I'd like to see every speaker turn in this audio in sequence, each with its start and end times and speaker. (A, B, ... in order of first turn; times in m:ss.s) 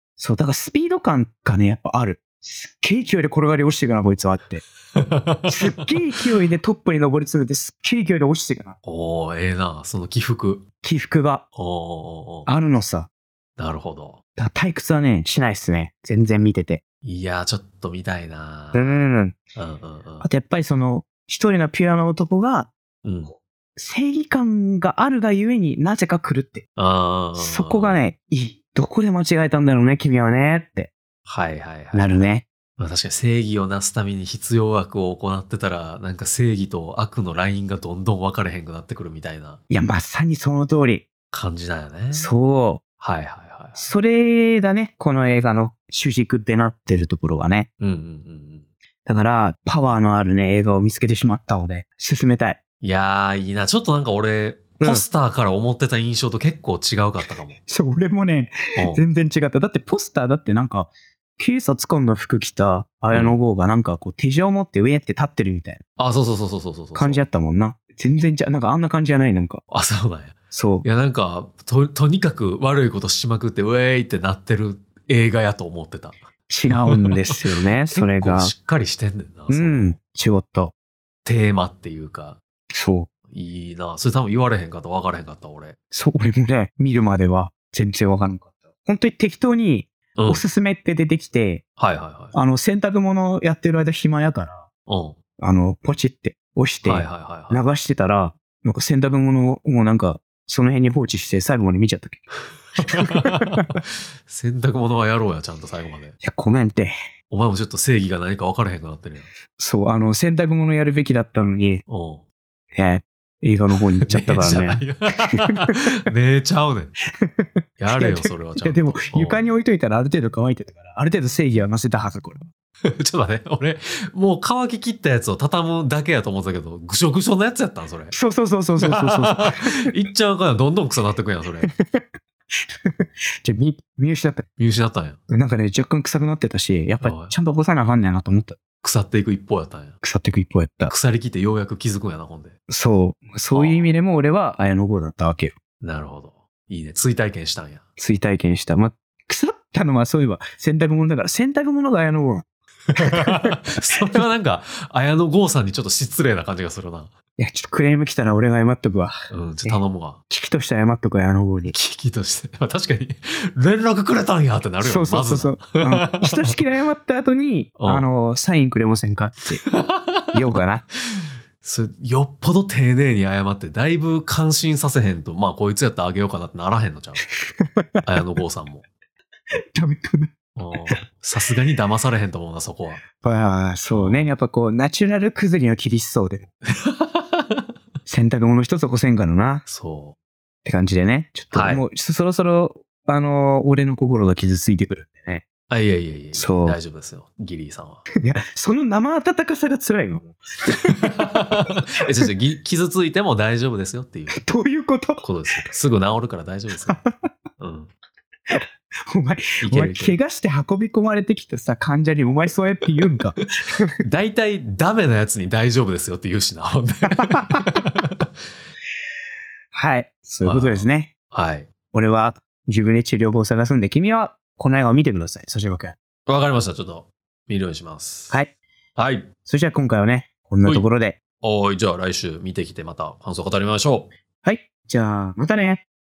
0:00.2-0:04.6 A
0:05.0-0:06.0 B
0:05.5-0:08.8 A
0:08.8-0:10.7 B
0:10.8-0:11.5 A
0:11.6-0:12.5 B
0:12.5-0:13.1 A
0:13.6-0:14.2 B
0:14.4-0:16.8 A
0:17.0-0:19.0 B
0:18.7-0:19.4 A
0:19.6-0:20.2 B
0:20.2-0:22.7 A
0:23.0-0:23.3 B
0:23.3-0:26.6 A
0:26.8-0:28.0 B
0:27.4-0:30.9 A
0:31.3-0:32.3 B
0:31.9-0:32.5 A
0:32.8-0:39.6 B
0:39.7-0:41.1 A
0:41.3-0:42.3 B
0:42.1-0:42.8 A
0:43.0-0:43.9 B
0:43.8-0:47.7 A
0:47.8-0:48.7 B
0:49.0-0:52.6 A
0:52.8-0:57.6 B
0:57.7-1:05.8 A
0:58.8-0:59.0 B
1:03.1-1:03.4 B
1:06.0-1:07.2 B
1:07.0-1:09.6 A
1:09.7-1:20.0 B
1:10.5-1:10.8 A
1:16.5-1:18.5 A
1:19.5-1:20.7 A
1:21.2-1:22.4 B
1:22.7-1:23.1 A
1:23.3-1:25.8 B
1:25.9-1:31.6 A
1:30.2-1:30.4 B
1:31.8-1:32.3 B
1:32.3-1:34.6 A
1:34.9-1:35.2 B
1:35.4-1:42.2 A
1:36.8-1:37.6 B
1:42.8-1:43.7 A
1:42.8-1:46.2 B
1:46.2-1:47.0 A
1:47.3-1:49.3 B
1:49.6-1:51.8 A
1:51.9-1:52.2 B
1:52.8-1:55.9 A
1:54.0-1:57.0 B
1:57.2-2:02.4 A
1:57.8-1:59.5 B
2:02.8-2:08.1 B
2:08.1-2:09.8 A
2:08.8-2:11.7 B
2:11.7-2:12.0 A
2:12.8-2:14.5 A
2:14.6-2:15.2 B
2:15.3-2:18.6 A
2:17.0-2:17.3 B
2:18.8-2:20.0 B
2:20.0-2:20.9 A
2:20.9-2:22.6 B
2:22.7-2:25.5 A
2:23.5-2:23.9 B
2:25.8-2:27.8 B
2:28.0-2:33.6 A
2:33.0-2:37.1 B
2:37.4-2:41.8 A
2:39.3-2:40.2 B
2:41.7-2:46.6 B
2:44.8-2:49.6 A
2:47.8-2:48.1 B
2:49.7-2:50.4 B
2:50.3-2:50.8 A
2:51.1-2:57.3 B
2:57.6-2:58.2 A
2:58.1-2:58.8 B
2:59.8-3:00.3 A
3:00.6-3:03.0 B
3:03.2-3:06.5 A
3:03.9-3:04.3 B
3:06.8-3:07.6 B
3:08.1-3:09.7 A
3:09.7-3:10.2 B
3:10.6-3:15.4 A
3:11.5-3:11.8 B
3:15.7-3:18.1 B
3:16.3-3:16.8 A
3:18.2-3:21.1 A
3:21.1-3:24.4 B
3:24.4-3:25.7 A
3:25.2-3:27.0 B
3:26.9-3:27.3 A
3:27.6-3:27.9 B
3:28.5-3:33.9 A
3:29.6-3:30.2 B
3:34.0-3:38.3 B
3:37.1-3:37.7 A
3:39.7-3:41.1 A
3:40.4-3:41.7 B
3:41.9-3:46.0 A
3:46.3-3:48.4 B
3:49.0-3:49.3 B
3:49.4-3:51.2 A
3:51.4-3:54.1 B
3:54.4-3:55.8 A